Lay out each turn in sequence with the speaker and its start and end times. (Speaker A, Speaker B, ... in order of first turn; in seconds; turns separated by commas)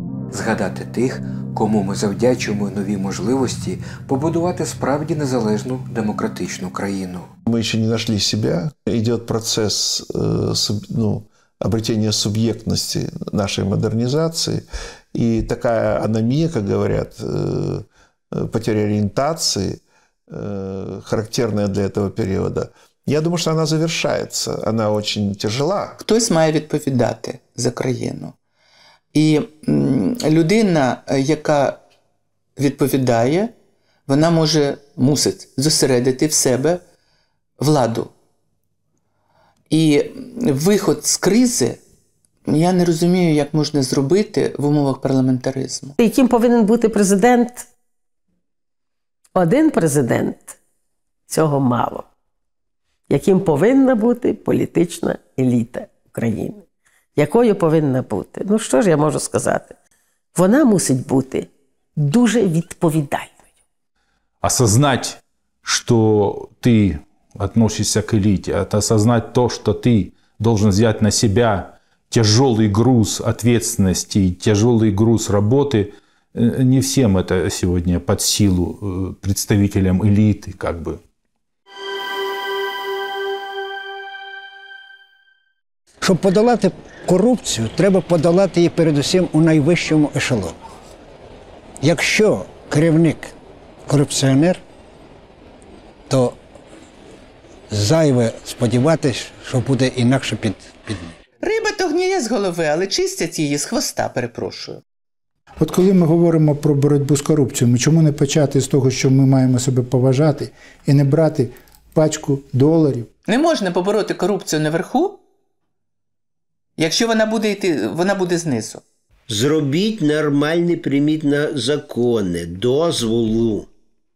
Speaker A: 0.3-7.3, Speaker B: 7.5-26.0, Speaker C: 26.0-28.3, Speaker C: 29.1-31.8, Speaker C: 32.6-33.5, Speaker C: 34.1-36.8, Speaker C: 37.6-38.1, Speaker C: 39.7-41.8, Speaker C: 42.5-45.9, Speaker D: 46.0-47.7, Speaker D: 49.3-50.6, Speaker D: 51.3-52.0, Speaker D: 53.1-56.6, Speaker D: 57.2-59.7, Speaker D: 60.3-63.4, Speaker E: 64.4-81.0, Speaker F: 86.0-90.5, Speaker F: 91.8-93.3, Speaker F: 93.9-94.6, Speaker F: 96.1-96.3, Speaker F: 97.7-101.1, Speaker C: 101.4-104.8, Speaker G: 105.6-113.1, Speaker C: 113.3-115.2, Speaker C: 116.8-118.8, Speaker H: 119.3-123.7